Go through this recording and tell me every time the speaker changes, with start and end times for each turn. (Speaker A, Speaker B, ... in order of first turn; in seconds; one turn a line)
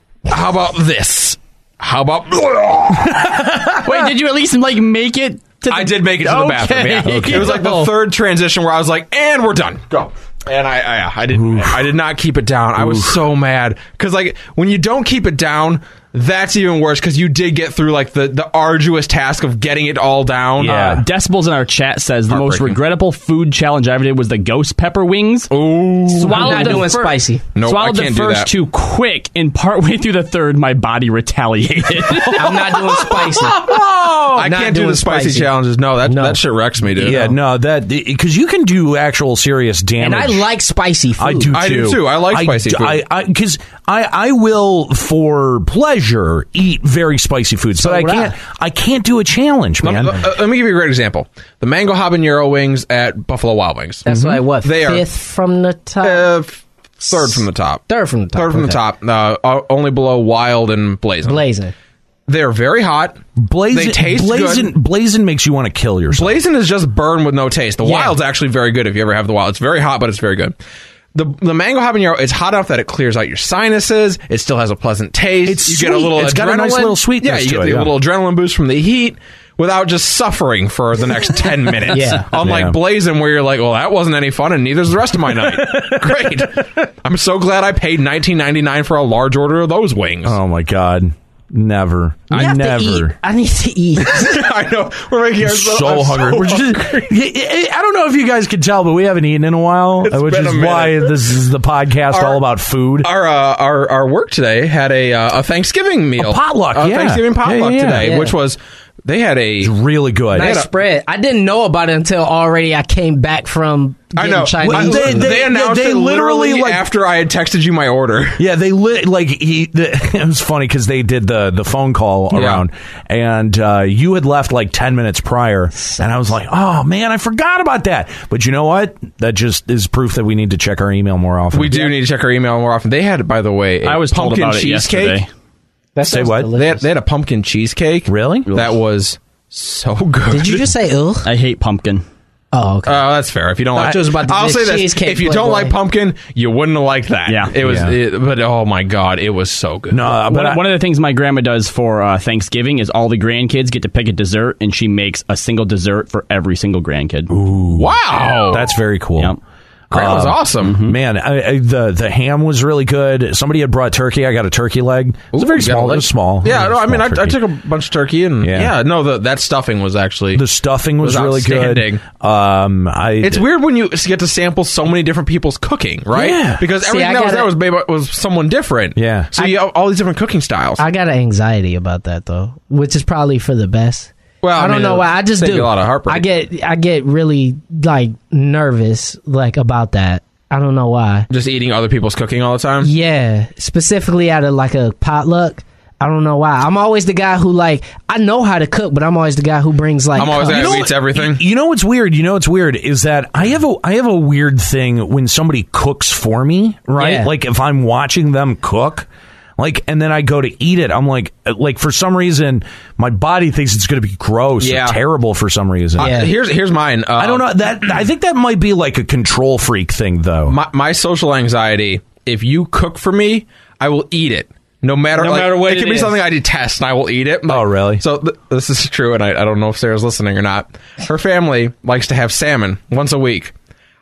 Speaker A: 0.3-3.3
Speaker B: 2.9-4.1
Speaker C: 3.8-7.9
Speaker A: 5.7-20.8
Speaker B: 7.0-7.6
Speaker D: 7.5-7.9
Speaker B: 11.3-11.9
Speaker B: 12.8-13.2
Speaker B: 20.6-21.0
Speaker C: 20.6-25.5
Speaker A: 22.3-22.8
Speaker A: 25.5-26.9
Speaker C: 26.1-33.1
Speaker D: 26.3-27.4
Speaker A: 27.6-28.5
Speaker B: 32.1-34.2
Speaker D: 32.4-33.6
Speaker A: 33.6-37.3
Speaker D: 34.4-35.5
Speaker D: 36.0-36.4
Speaker D: 37.0-37.4
Speaker B: 37.0-40.4
Speaker D: 40.0-41.5
Speaker B: 41.2-50.3
Speaker A: 41.5-43.0
Speaker D: 47.8-48.4
Speaker A: 49.8-55.1
Speaker D: 54.1-56.3
Speaker A: 56.0-61.4
Speaker D: 57.1-58.8
Speaker D: 61.2-61.7
Speaker A: 62.3-64.7
Speaker B: 63.4-66.4
Speaker A: 66.1-70.5
Speaker D: 67.8-68.2
Speaker A: 71.1-90.4
Speaker B: 75.4-77.9
Speaker D: 81.9-82.3
Speaker B: 82.2-82.8
Speaker B: 85.3-86.6
Speaker B: 90.2-93.2
Speaker D: 92.3-94.4
Speaker A: 94.0-97.1
Speaker B: 95.4-103.1
Speaker A: 100.0-101.3
Speaker A: 102.1-102.4
Speaker A: 103.0-109.7
Speaker B: 106.2-108.2
Speaker D: 108.0-108.3
Speaker B: 109.6-110.6
Speaker D: 110.3-115.4
Speaker A: 110.4-110.7
Speaker A: 114.2-118.4
Speaker B: 114.6-116.9
Speaker B: 118.4-131.9
Speaker A: 122.3-122.6
Speaker A: 131.5-135.2
Speaker C: 133.8-135.3
Speaker D: 136.0-136.9
Speaker B: 136.1-136.5
Speaker A: 136.5-140.7
Speaker B: 138.1-138.5
Speaker D: 140.3-141.3
Speaker C: 141.2-142.0
Speaker D: 142.5-143.1
Speaker A: 142.9-150.1
Speaker D: 143.7-145.8
Speaker C: 147.3-147.9
Speaker B: 147.6-147.9
Speaker B: 149.9-150.6
Speaker C: 150.3-157.3
Speaker B: 157.3-159.4
Speaker A: 157.8-158.7
Speaker B: 159.9-167.4
Speaker A: 159.9-160.8
Speaker C: 160.6-161.0
Speaker A: 165.3-170.4
Speaker B: 168.4-168.7
Speaker B: 170.3-173.4
Speaker A: 171.0-172.0
Speaker A: 173.2-180.8
Speaker B: 176.1-176.6
Speaker D: 176.8-177.5
Speaker B: 179.0-179.3
Speaker D: 180.8-191.3
Speaker A: 184.4-186.2
Speaker A: 191.3-192.9
Speaker D: 192.8-200.8
Speaker A: 200.2-201.4
Speaker B: 200.2-209.1
Speaker D: 207.0-207.3
Speaker B: 209.6-216.2
Speaker A: 214.6-215.0
Speaker A: 216.0-217.5
Speaker D: 216.0-216.3
Speaker B: 217.2-220.6
Speaker A: 220.5-233.5
Speaker D: 225.2-226.2
Speaker B: 227.5-228.0